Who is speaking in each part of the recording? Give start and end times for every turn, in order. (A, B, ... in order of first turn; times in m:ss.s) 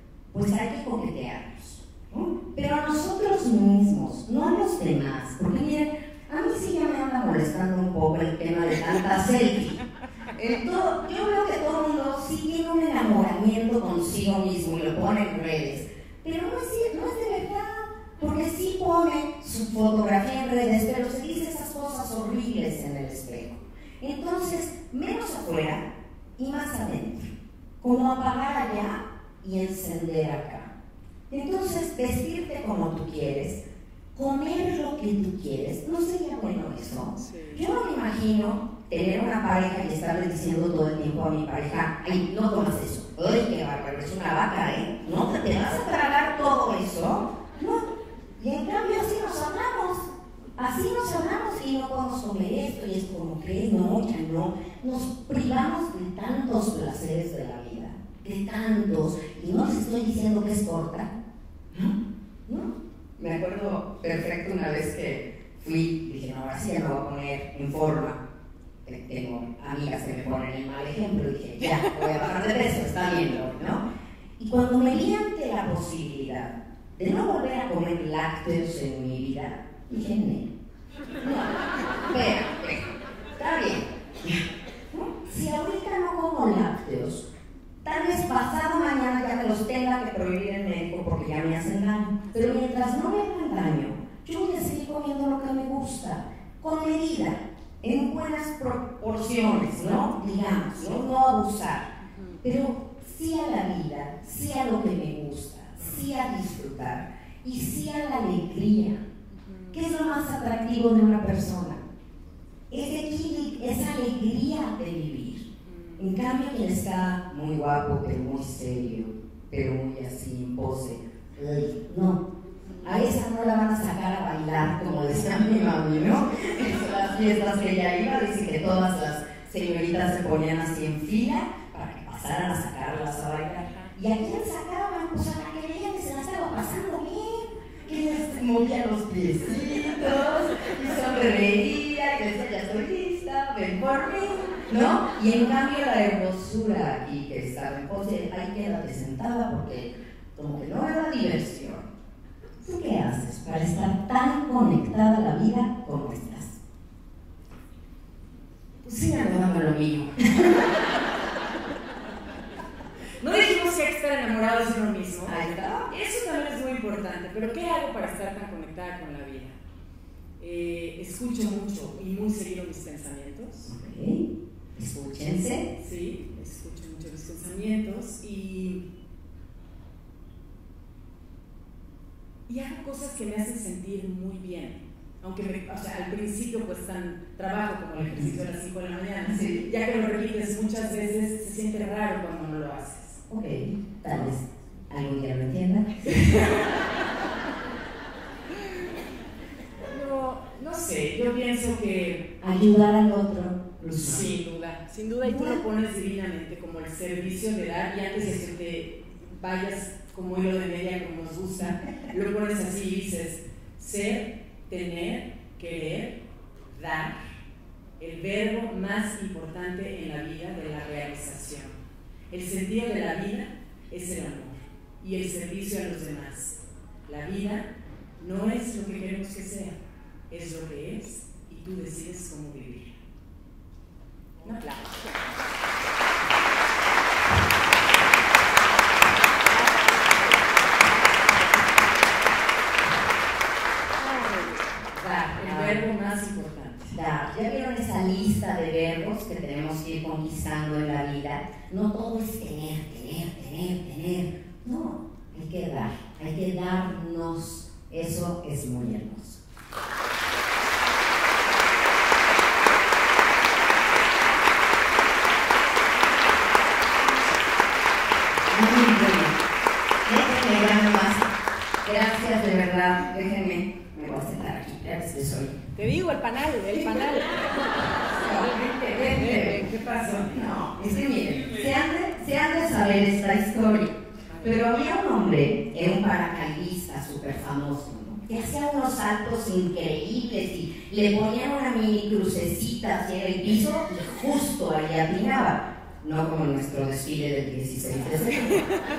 0:00.3-0:09.8 A
0:10.3-0:30.7 A
0:31.3-0:33.6 A
0:34.2-1:01.1 A
0:37.2-0:37.6 B
1:02.5-1:08.2 A
1:08.9-1:13.8 A
1:14.4-1:20.5 A
1:21.2-1:27.3 A
1:27.8-1:41.9 A
1:42.0-1:42.4 B
1:42.4-1:49.0 A
1:49.3-1:49.9 B
1:49.7-1:51.8 A
1:52.7-1:55.5 A
1:55.7-1:56.1 B
1:56.0-2:02.2 A
2:02.8-2:31.9 A
2:32.6-2:36.6 A
2:38.8-2:40.8 A
2:43.2-2:49.6 B
2:45.3-2:45.9 A
2:50.4-2:53.7 B
2:53.7-2:54.2 A
2:54.8-2:55.7 A
2:55.7-2:58.8 B
3:02.5-3:13.2 B
3:08.1-3:08.4 A
3:09.3-3:09.7 A
3:13.3-3:16.3 A
3:16.2-3:16.7 B
3:19.8-3:22.3 B
3:22.4-3:24.3 A
3:24.0-3:37.2 B
3:25.2-3:25.6 A
3:38.0-3:41.8 B
3:42.3-3:49.8 B
3:50.3-3:53.0 B
3:54.4-3:55.2 B
4:04.9-4:07.0 B
4:05.4-4:05.8 A
4:06.9-4:19.4 A
4:28.5-4:29.4 A
4:30.0-4:31.3 A
4:31.8-4:35.6 A
4:35.8-4:40.5 B
4:36.8-4:37.5 A
4:38.2-4:39.6 A
4:40.3-4:58.7 A